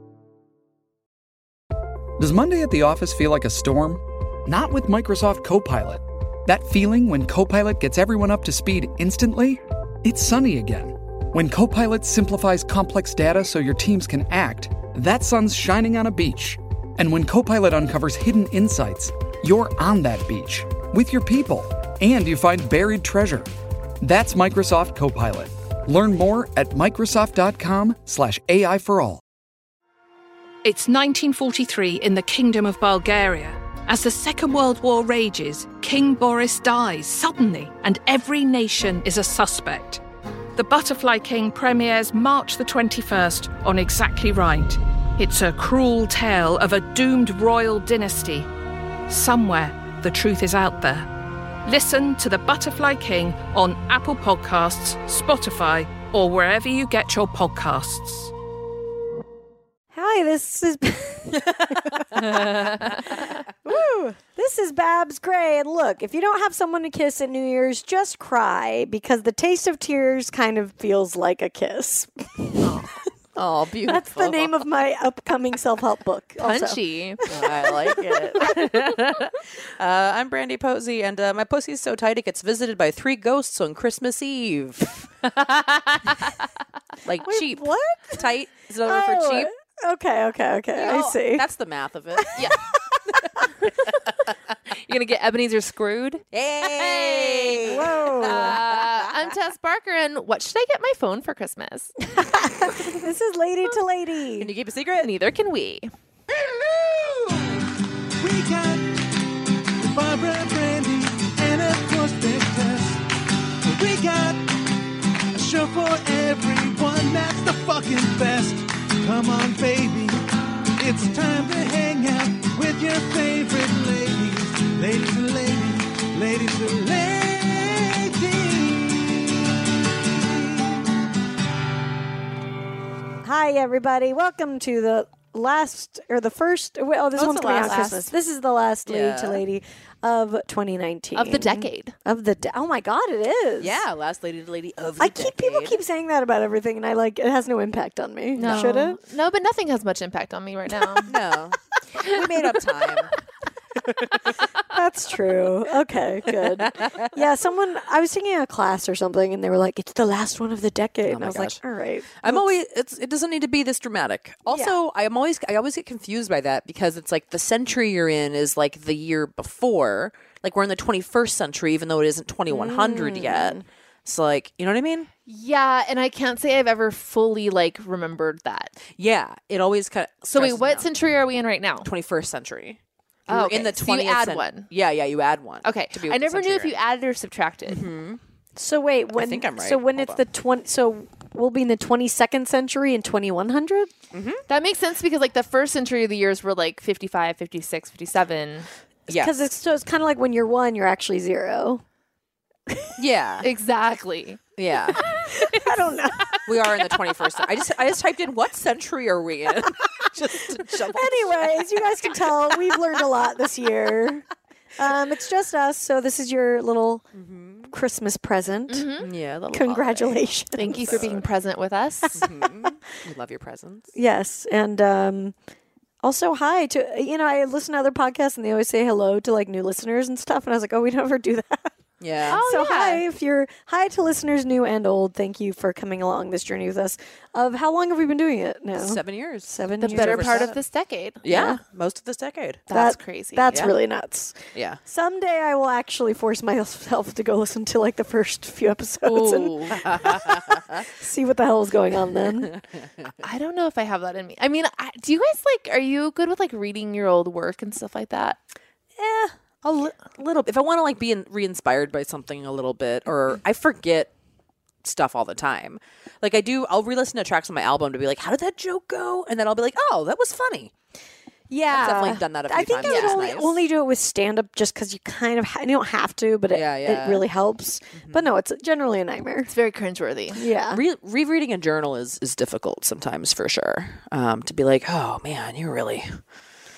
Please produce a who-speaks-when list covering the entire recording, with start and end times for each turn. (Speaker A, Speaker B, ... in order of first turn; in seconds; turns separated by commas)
Speaker A: 2.2-23.5, Speaker A: 24.0-29.2, Speaker B: 30.6-40.0, Speaker B: 40.5-48.5, Speaker B: 49.1-51.1, Speaker B: 51.6-58.3, Speaker C: 59.9-72.7, Speaker D: 61.5-62.0, Speaker E: 62.2-62.9, Speaker E: 72.6-72.9, Speaker D: 73.3-74.6, Speaker C: 73.9-78.8, Speaker E: 76.4-77.2, Speaker D: 77.3-86.3, Speaker D: 87.0-89.5, Speaker C: 87.2-88.3, Speaker C: 88.8-91.5, Speaker D: 90.8-94.3, Speaker C: 92.2-92.8, Speaker E: 94.8-96.2, Speaker D: 96.3-99.1, Speaker E: 96.9-97.6, Speaker C: 97.6-98.6, Speaker E: 98.2-101.9, Speaker C: 102.1-104.5, Speaker D: 104.4-105.1, Speaker E: 105.0-105.9, Speaker F: 107.0-107.6, Speaker F: 108.2-109.1, Speaker F: 109.8-113.1, Speaker F: 113.6-114.6, Speaker F: 115.3-120.2, Speaker F: 120.8-129.5, Speaker F: 130.1-130.8, Speaker C: 133.2-143.8, Speaker E: 137.2-138.1, Speaker D: 138.9-139.4, Speaker E: 141.2-141.9, Speaker D: 143.6-145.8, Speaker C: 145.0-149.0, Speaker E: 148.4-151.1, Speaker D: 148.4-148.7, Speaker D: 151.1-153.2, Speaker C: 154.7-162.5, Speaker D: 156.6-157.1, Speaker D: 161.1-161.6, Speaker D: 162.2-175.1, Speaker C: 164.5-164.8, Speaker C: 172.5-173.6, Speaker E: 175.3-178.8, Speaker D: 179.0-180.9, Speaker E: 180.3-181.9, Speaker D: 181.8-186.8, Speaker E: 183.3-184.7, Speaker E: 185.6-187.9, Speaker D: 187.7-188.2, Speaker C: 188.6-193.9, Speaker D: 189.1-190.2, Speaker D: 194.1-194.4, Speaker E: 194.5-198.7, Speaker D: 199.1-199.3, Speaker C: 199.1-201.8, Speaker C: 202.7-203.0, Speaker D: 203.0-203.5, Speaker E: 203.4-204.4, Speaker D: 204.6-205.0, Speaker E: 205.2-205.7, Speaker C: 205.2-206.3, Speaker D: 206.4-211.8, Speaker C: 210.8-214.2, Speaker C: 214.8-217.1, Speaker D: 217.1-217.7, Speaker C: 217.7-218.9, Speaker E: 218.7-219.1, Speaker D: 219.0-221.3, Speaker C: 219.5-221.1, Speaker E: 220.6-222.3, Speaker D: 222.1-223.9, Speaker C: 222.2-222.7, Speaker C: 223.9-225.4, Speaker C: 226.0-231.7, Speaker D: 232.0-232.4, Speaker C: 232.2-240.5, Speaker E: 232.3-233.0, Speaker D: 238.8-240.6, Speaker E: 239.8-241.2, Speaker D: 241.2-242.6, Speaker C: 241.2-241.6, Speaker E: 242.7-243.7, Speaker C: 242.7-252.5, Speaker D: 244.5-244.8, Speaker D: 249.0-250.9, Speaker D: 252.4-253.1, Speaker E: 253.2-258.4, Speaker D: 259.0-264.1, Speaker D: 264.8-270.7, Speaker C: 271.5-279.5, Speaker D: 271.7-273.6, Speaker E: 272.8-273.2, Speaker D: 276.5-277.2, Speaker D: 277.9-278.2, Speaker E: 279.5-280.4, Speaker C: 280.3-280.8, Speaker D: 280.7-286.2